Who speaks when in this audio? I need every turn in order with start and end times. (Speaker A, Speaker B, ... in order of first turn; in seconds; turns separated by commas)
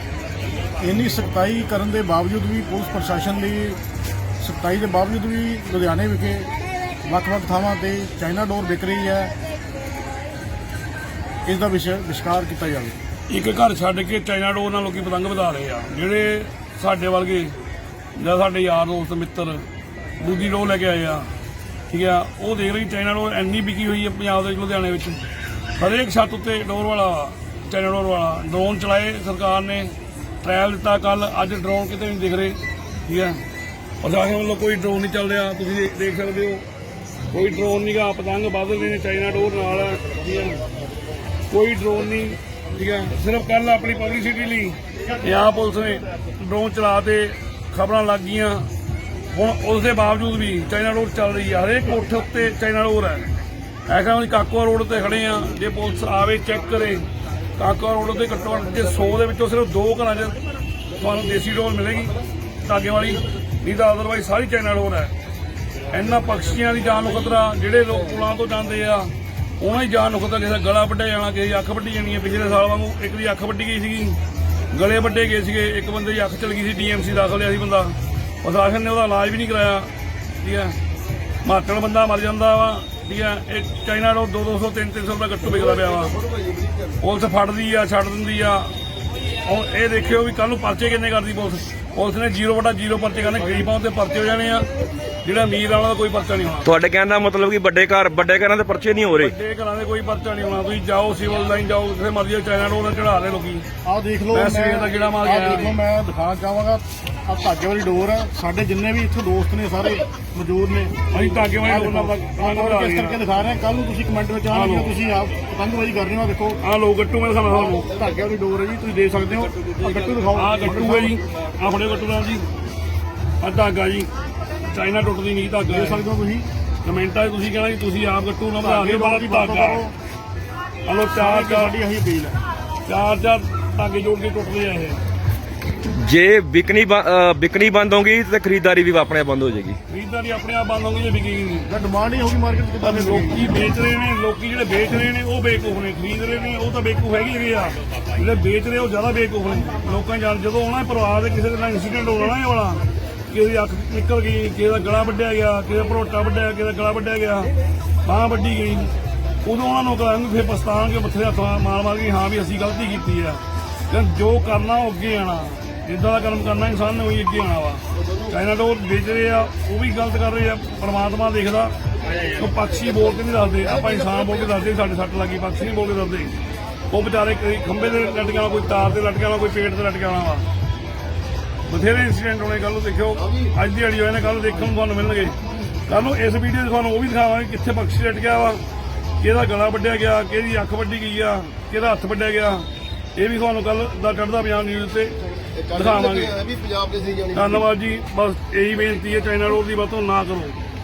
Speaker A: 0.8-3.8, Speaker A: 4.4-6.5, Speaker A: 7.0-9.3, Speaker A: 11.4-13.0, Speaker B: 13.3-17.5, Speaker B: 18.1-19.6, Speaker B: 20.2-21.3, Speaker B: 21.9-25.3, Speaker B: 25.8-33.4, Speaker B: 34.0-36.6, Speaker B: 37.3-40.6, Speaker B: 41.5-48.7, Speaker B: 49.3-53.3, Speaker B: 53.9-60.4, Speaker B: 61.0-65.1, Speaker B: 65.9-74.2, Speaker B: 74.7-79.9, Speaker B: 80.4-80.8, Speaker B: 81.4-86.2, Speaker C: 86.4-86.7, Speaker B: 87.0-88.7, Speaker B: 89.4-94.7, Speaker B: 95.2-96.7, Speaker D: 96.6-99.3, Speaker B: 99.1-103.7, Speaker A: 103.8-111.0, Speaker B: 104.3-105.7, Speaker B: 111.1-113.2, Speaker A: 111.6-116.6, Speaker B: 114.5-115.0, Speaker B: 116.6-117.9, Speaker A: 117.5-121.2, Speaker B: 120.3-122.5, Speaker B: 123.4-124.1, Speaker B: 124.6-126.0, Speaker A: 125.7-126.5, Speaker B: 126.8-129.8, Speaker A: 128.6-129.9, Speaker B: 130.8-131.7, Speaker A: 131.1-132.3, Speaker B: 132.8-135.0, Speaker D: 135.9-139.8, Speaker B: 139.9-141.7, Speaker A: 141.7-143.5, Speaker B: 142.8-157.5, Speaker B: 158.0-158.9, Speaker B: 159.4-171.7, Speaker B: 172.2-176.3, Speaker B: 176.9-180.5, Speaker B: 181.7-188.6, Speaker B: 189.2-195.2, Speaker C: 195.6-197.4, Speaker B: 195.7-196.4, Speaker B: 197.3-200.6